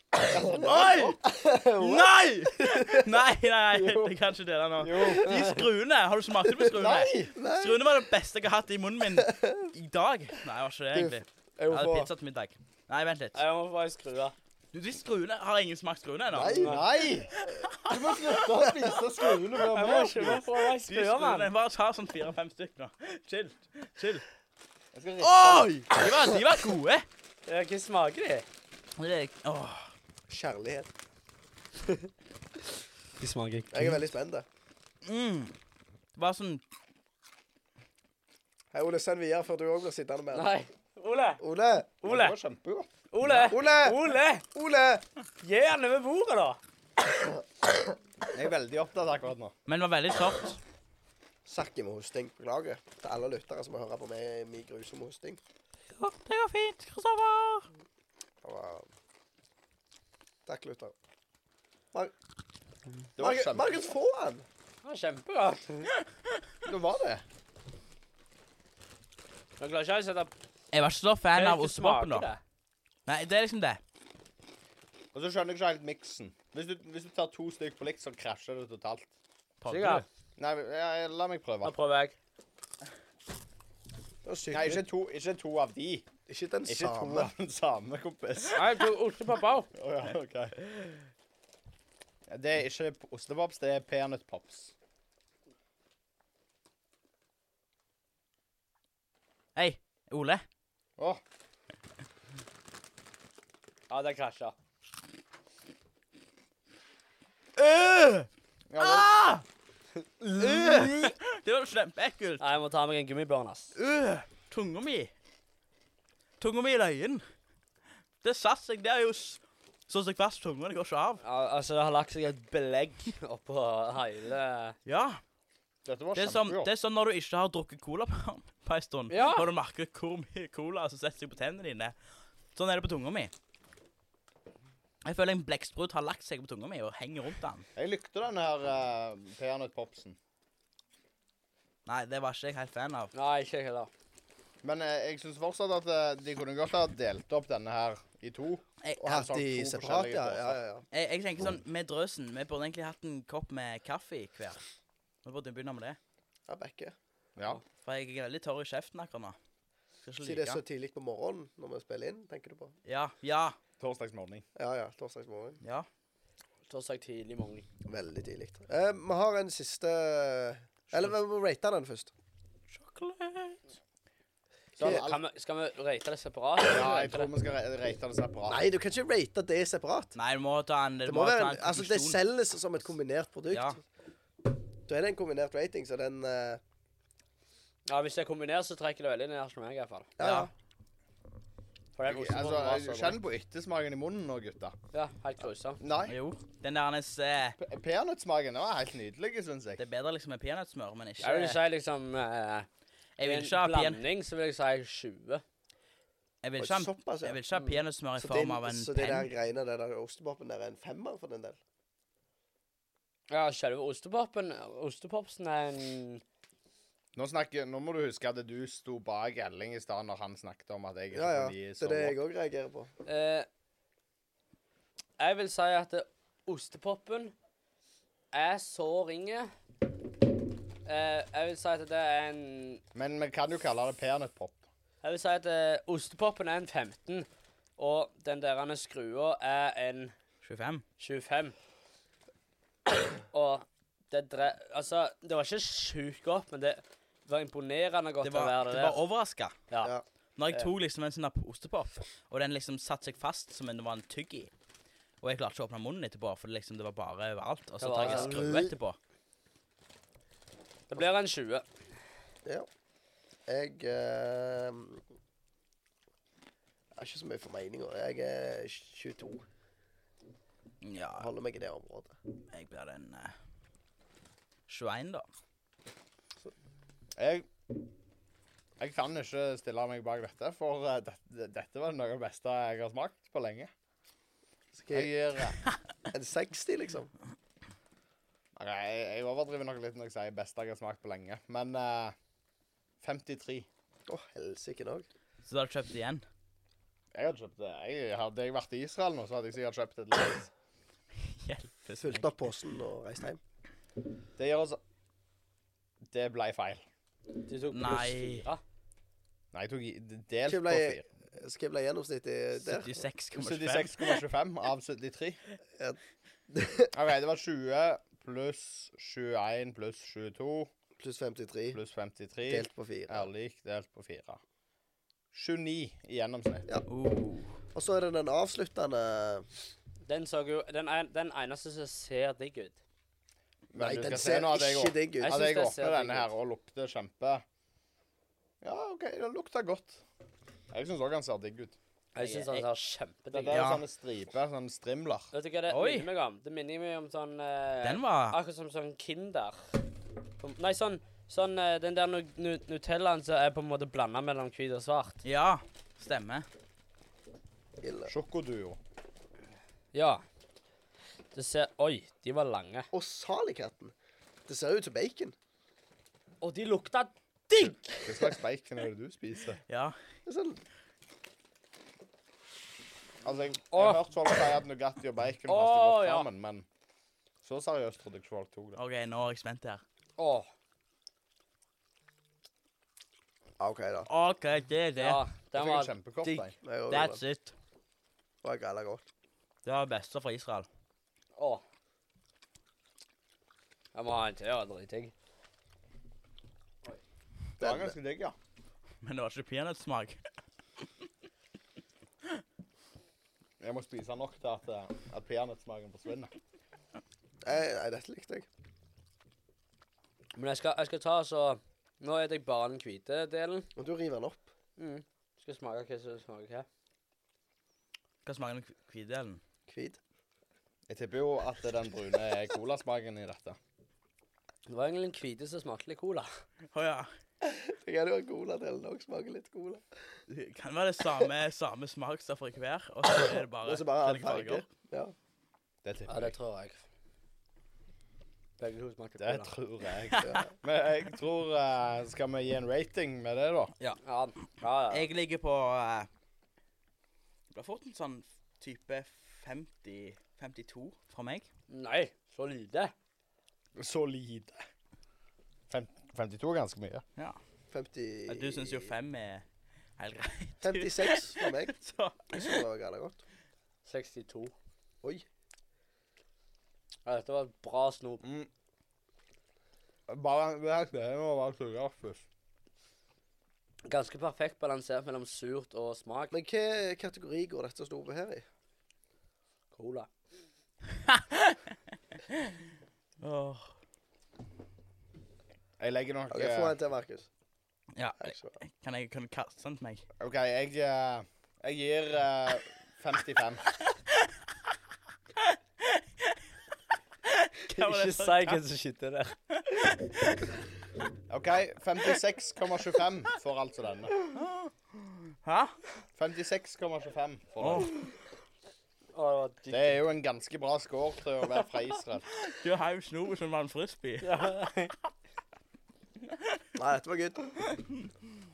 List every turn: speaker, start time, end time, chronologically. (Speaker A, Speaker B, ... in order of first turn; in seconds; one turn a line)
Speaker A: 0.2-3.1
Speaker B: 0.4-1.2
Speaker B: 1.8-13.4
Speaker A: 3.8-4.0
Speaker C: 4.8-5.3
Speaker A: 5.0-5.4
Speaker A: 6.5-7.9
Speaker C: 6.7-7.3
Speaker A: 9.1-9.7
Speaker A: 10.9-12.1
Speaker D: 13.3-14.3
Speaker B: 14.7-16.7
Speaker A: 16.3-16.8
Speaker C: 16.5-20.5
Speaker D: 16.5-16.9
Speaker B: 17.4-18.4
Speaker A: 18.5-19.0
Speaker D: 19.6-21.5
Speaker B: 20.9-24.2
Speaker C: 24.9-25.8
Speaker B: 25.2-27.1
Speaker D: 27.5-28.4
Speaker B: 29.0-29.9
Speaker A: 30.3-30.9
Speaker D: 33.2-34.0
Speaker A: 33.7-34.5
Speaker B: 35.0-35.5
Speaker B: 36.1-36.6
Speaker A: 38.7-40.5
Speaker D: 40.3-41.4
Speaker A: 41.4-41.9
Speaker D: 42.0-42.4
Speaker C: 42.0-42.9
Speaker D: 43.1-44.4
Speaker A: 43.4-45.0
Speaker D: 45.4-46.6
Speaker A: 47.3-47.8
Speaker C: 48.3-49.5
Speaker B: 49.7-50.6
Speaker A: 51.4-55.4
Speaker B: 56.0-57.7
Speaker A: 58.4-58.9
Speaker A: 60.5-60.9
Speaker C: 63.2-63.8
Speaker A: 63.2-64.5
Speaker D: 64.8-65.9
Speaker C: 66.6-67.2
Speaker D: 69.6-70.3
Speaker B: 70.7-72.3
Speaker D: 71.3-72.4
Speaker B: 73.0-73.8
Speaker C: 75.1-79.1
Speaker B: 79.6-80.0
Speaker D: 79.7-80.0
Speaker C: 80.4-81.7
Speaker D: 81.6-82.2
Speaker A: 84.2-84.8
Speaker C: 84.5-86.1
Speaker A: 86.3-87.3
Speaker C: 86.7-88.9
Speaker D: 88.5-89.7
Speaker C: 89.7-90.6
Speaker C: 92.3-94.7
Speaker B: 99.5-100.4
Speaker D: 103.9-104.5
Speaker B: 107.5-108.3
Speaker C: 108.7-109.1
Speaker B: 108.8-109.4
Speaker B: 110.4-112.4
Speaker D: 112.4-113.7
Speaker B: 113.8-115.1
Speaker B: 116.4-117.2
Speaker B: 118.2-121.2
Speaker D: 121.2-124.8
Speaker B: 124.9-125.2
Speaker C: 125.9-126.7
Speaker B: 126.1-131.9
Speaker D: 129.1-129.5
Speaker B: 132.5-133.3
Speaker B: 135.0-137.7
Speaker C: 137.8-140.2
Speaker B: 141.9-143.1
Speaker D: 143.1-143.9
Speaker C: 144.6-150.6
Speaker A: 149.0-150.8
Speaker B: 150.9-154.6
Speaker B: 155.2-156.0
Speaker A: 156.5-156.9
Speaker B: 157.7-159.4
Speaker B: 160.0-160.6
Speaker A: 160.2-162.7
Speaker B: 162.9-163.6
Speaker C: 163.8-164.4
Speaker A: 164.6-165.6
Speaker D: 166.7-167.7
Speaker A: 167.8-172.1
Speaker B: 172.8-173.6
Speaker C: 174.8-175.2
Speaker A: 174.8-175.0
Speaker D: 174.8-177.3
Speaker C: 176.6-178.6
Speaker A: 178.5-180.1
Speaker B: 180.2-182.2
Speaker A: 181.0-183.8
Speaker B: 183.5-183.8
Speaker A: 184.9-186.6
Speaker D: 187.9-190.1
Speaker A: 190.2-190.5
Speaker B: 190.2-190.5
Speaker D: 191.9-193.2
Speaker C: 192.1-194.8
Speaker D: 194.9-195.8
Speaker C: 195.8-196.2
Speaker B: 196.0-197.6
Speaker C: 197.6-199.8
Speaker B: 199.8-201.6
Speaker D: 201.2-202.7
Speaker B: 203.2-204.0
Speaker D: 203.2-205.4
Speaker B: 206.4-209.3
Speaker A: 206.6-207.4
Speaker A: 208.2-211.6
Speaker D: 213.3-216.2
Speaker C: 217.1-222.2
Speaker A: 221.1-222.9
Speaker D: 223.1-223.5
Speaker D: 225.2-227.3
Speaker D: 228.3-229.5
Speaker D: 230.9-232.8
Speaker C: 232.9-234.6
Speaker D: 235.0-240.1
Speaker B: 240.4-240.8
Speaker D: 241.0-241.6
Speaker D: 243.3-249.0
Speaker B: 248.2-249.6
Speaker B: 250.4-254.5
Speaker B: 255.2-259.0
Speaker D: 257.8-258.6
Speaker A: 258.0-258.7
Speaker D: 260.9-261.6
Speaker A: 263.5-265.0
Speaker A: 266.9-269.4
Speaker B: 270.8-271.3
Speaker A: 271.2-272.1
Speaker B: 272.5-273.3
Speaker B: 274.7-275.2
Speaker C: 277.2-277.5
Speaker C: 278.8-283.7
Speaker A: 284.7-285.1
Speaker C: 284.9-285.6
Speaker A: 286.1-287.1
Speaker C: 288.6-292.1
Speaker C: 293.0-293.7
Speaker A: 294.1-295.1
Speaker B: 295.4-296.2
Speaker C: 297.1-300.5
Speaker B: 301.2-302.5
Speaker A: 302.0-303.4
Speaker C: 304.4-304.8
Speaker C: 306.1-306.8
Speaker D: 307.4-308.6
Speaker B: 307.7-308.4
Speaker C: 309.5-311.0
Speaker A: 310.4-313.0
Speaker B: 312.6-314.2
Speaker C: 313.3-315.4
Speaker A: 315.8-316.9
Speaker C: 316.9-320.7
Speaker A: 321.0-321.8
Speaker C: 321.7-324.4
Speaker A: 322.5-323.3
Speaker C: 325.3-326.6
Speaker B: 326.9-327.5
Speaker A: 327.7-329.5
Speaker D: 330.1-332.8
Speaker C: 333.7-337.4
Speaker A: 333.8-335.4
Speaker D: 335.2-336.3
Speaker C: 338.6-340.0
Speaker C: 340.7-341.8
Speaker D: 342.1-343.6
Speaker B: 342.2-342.7
Speaker C: 343.3-345.3
Speaker B: 343.5-343.8
Speaker D: 345.3-349.7
Speaker B: 345.7-346.1
Speaker B: 347.8-348.4
Speaker D: 350.4-355.2
Speaker B: 355.2-356.4
Speaker A: 357.8-358.1
Speaker C: 358.1-358.8
Speaker D: 359.9-360.2
Speaker D: 361.3-362.9
Speaker A: 362.9-363.9
Speaker A: 364.5-365.4
Speaker D: 366.4-368.1
Speaker C: 368.0-369.6
Speaker B: 369.7-370.0
Speaker A: 370.2-370.6
Speaker C: 373.2-376.6
Speaker D: 373.7-374.0
Speaker D: 375.5-376.3
Speaker C: 377.4-378.8
Speaker B: 378.8-379.8
Speaker D: 380.2-380.5
Speaker A: 383.6-384.1
Speaker B: 384.1-385.2
Speaker D: 385.0-386.4
Speaker C: 385.5-386.6
Speaker A: 386.6-387.2
Speaker B: 386.9-387.5
Speaker A: 388.4-389.0
Speaker B: 389.6-390.7
Speaker D: 391.4-391.6
Speaker D: 393.9-395.1
Speaker C: 397.6-398.4
Speaker A: 397.6-397.9
Speaker B: 399.0-400.2
Speaker C: 403.6-406.3
Speaker A: 407.4-408.5
Speaker D: 410.3-413.7
Speaker A: 413.8-414.5
Speaker D: 414.8-416.6
Speaker B: 418.2-419.4
Speaker A: 419.7-420.0
Speaker C: 420.9-423.6
Speaker D: 424.7-426.3
Speaker B: 426.7-427.1
Speaker A: 427.4-429.9
Speaker B: 430.3-434.6
Speaker A: 433.1-435.1
Speaker C: 435.8-436.3
Speaker D: 436.1-436.8
Speaker D: 438.6-439.5
Speaker C: 439.2-443.7
Speaker B: 440.1-440.4
Speaker A: 440.2-440.5
Speaker D: 444.0-445.1
Speaker B: 444.9-446.1
Speaker B: 447.5-451.5
Speaker D: 451.7-452.9
Speaker C: 453.8-454.6
Speaker C: 455.7-457.0
Speaker A: 457.7-458.9
Speaker B: 458.3-459.4
Speaker B: 460.0-462.6
Speaker A: 460.6-461.8
Speaker A: 462.3-463.2
Speaker D: 463.9-464.5
Speaker D: 467.1-468.2
Speaker C: 468.2-468.5
Speaker C: 470.1-472.2
Speaker D: 473.9-476.3
Speaker A: 476.3-478.4
Speaker D: 479.7-480.1
Speaker B: 481.0-481.7
Speaker B: 483.2-483.7
Speaker C: 485.8-486.7
Speaker A: 486.3-487.3
Speaker B: 487.9-490.1
Speaker A: 488.2-488.6
Speaker C: 490.2-493.7
Speaker B: 495.5-496.0
Speaker B: 497.3-498.6
Speaker D: 497.7-499.4
Speaker B: 499.6-500.4
Speaker C: 501.3-504.1
Speaker B: 504.3-505.8
Speaker C: 506.1-507.9
Speaker B: 507.6-507.9
Speaker D: 509.1-509.9
Speaker C: 509.7-512.3
Speaker B: 512.3-514.5
Speaker D: 514.2-514.9
Speaker B: 516.3-516.6
Speaker A: 516.8-517.5
Speaker B: 517.7-518.1